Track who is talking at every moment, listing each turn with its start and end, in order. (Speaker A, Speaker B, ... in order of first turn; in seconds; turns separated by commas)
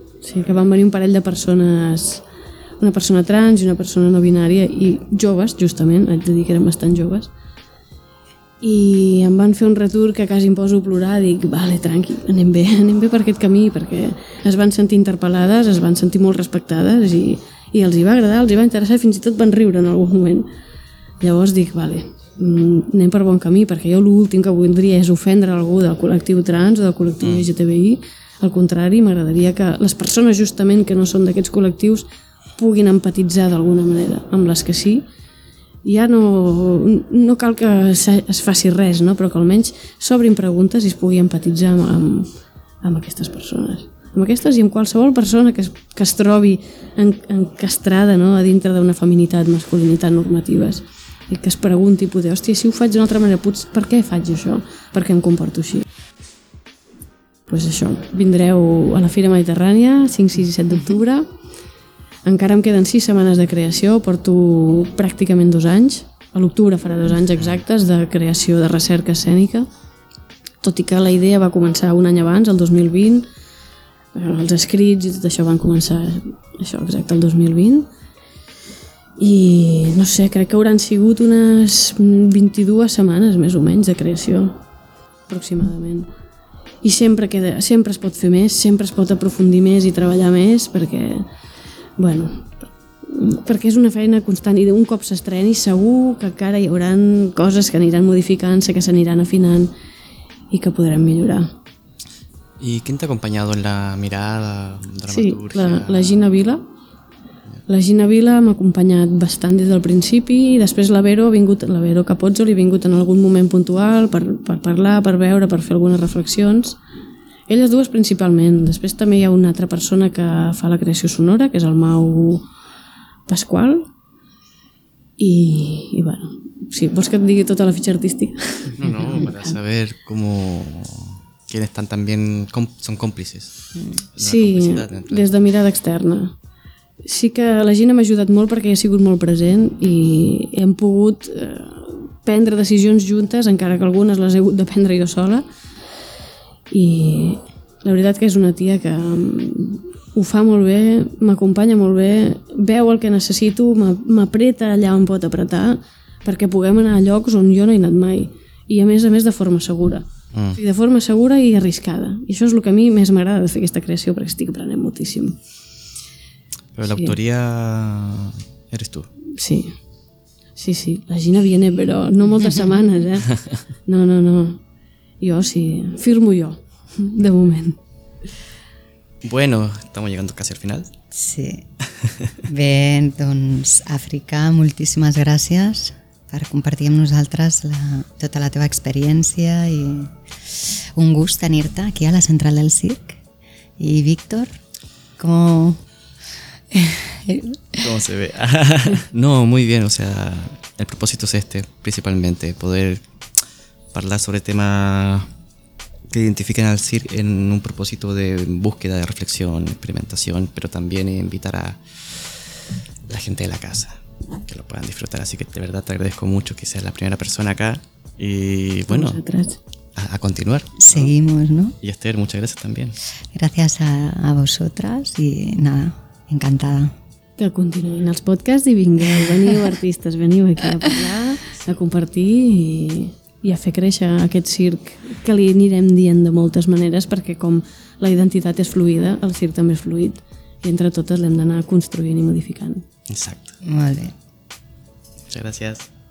Speaker A: 0.2-2.2, Speaker A: 2.8-7.3, Speaker A: 8.6-20.5, Speaker A: 21.2-32.0, Speaker A: 32.6-35.0, Speaker A: 35.8-55.8, Speaker A: 57.5-61.3, Speaker A: 62.2-69.7, Speaker A: 70.6-73.3, Speaker A: 74.1-77.9, Speaker A: 79.2-84.6, Speaker A: 85.3-86.1, Speaker A: 86.8-91.3, Speaker A: 92.0-99.7, Speaker A: 100.5-101.5, Speaker B: 102.6-106.2, Speaker A: 105.1-106.6, Speaker A: 107.7-116.8, Speaker A: 117.5-122.5, Speaker A: 123.3-123.9, Speaker A: 125.2-129.5, Speaker B: 128.8-133.5, Speaker B: 134.1-135.3, Speaker A: 134.2-136.3, Speaker A: 137.0-145.4, Speaker A: 146.7-165.4, Speaker B: 160.3-160.6, Speaker B: 166.7-169.1, Speaker A: 166.8-167.1, Speaker A: 169.3-169.8, Speaker A: 170.6-173.3, Speaker A: 173.8-174.6, Speaker A: 175.2-177.8, Speaker B: 179.2-180.9, Speaker C: 181.1-181.7, Speaker B: 182.0-182.3, Speaker C: 182.4-193.2, Speaker C: 193.8-194.5, Speaker C: 195.2-195.8, Speaker C: 196.7-197.9, Speaker B: 197.8-203.0, Speaker B: 203.9-205.3, Speaker B: 206.1-212.4, Speaker B: 213.1-219.2, Speaker A: 218.9-219.6, Speaker B: 219.9-221.1, Speaker C: 220.8-221.8, Speaker B: 221.8-223.0, Speaker C: 223.3-226.9, Speaker A: 227.4-242.8, Speaker B: 243.1-243.5, Speaker C: 243.6-244.1, Speaker B: 245.3-245.9